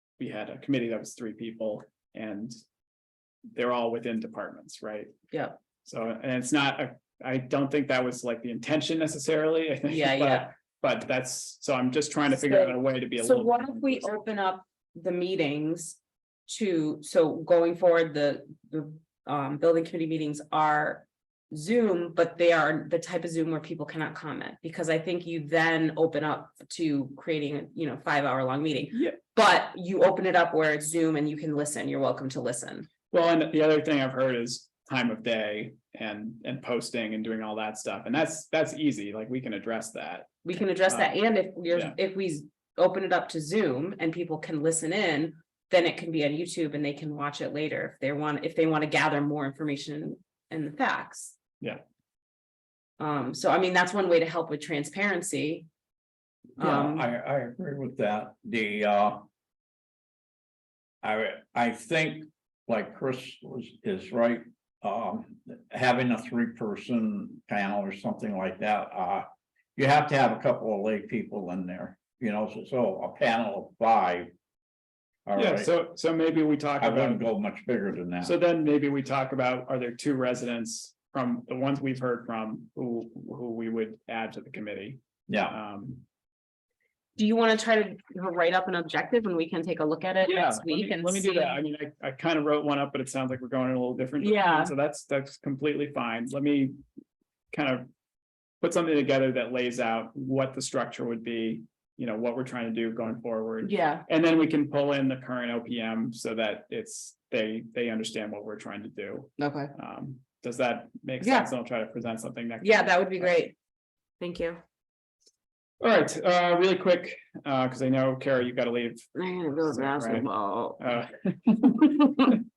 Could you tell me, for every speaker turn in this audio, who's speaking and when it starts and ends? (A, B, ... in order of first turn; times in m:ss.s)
0:00.2-0:02.5 A
0:03.5-0:05.1 A
0:05.3-0:05.6 B
0:05.8-0:14.1 A
0:09.8-0:10.5 B
0:12.3-0:32.9 B
0:28.9-0:29.2 A
0:33.1-0:41.1 A
0:40.4-0:51.4 B
0:41.7-0:41.9 A
0:53.0-0:55.7 B
0:56.6-0:57.0 B
0:56.6-0:59.3 C
1:01.0-1:14.3 C
1:15.2-1:15.7 C
1:15.4-1:17.2 A
1:16.8-1:18.3 C
1:18.2-1:26.0 A
1:25.3-1:25.5 C
1:27.2-1:31.6 B
1:30.2-1:36.8 A
1:34.2-1:34.7 B
1:37.5-1:37.9 A
1:38.6-1:53.4 A
1:43.6-1:44.0 B
1:49.4-1:49.7 B
1:51.2-1:51.5 B
1:52.6-1:53.5 B
1:54.2-1:54.6 B
1:55.8-1:59.1 A
1:59.1-2:00.8 B
1:59.6-2:02.4 A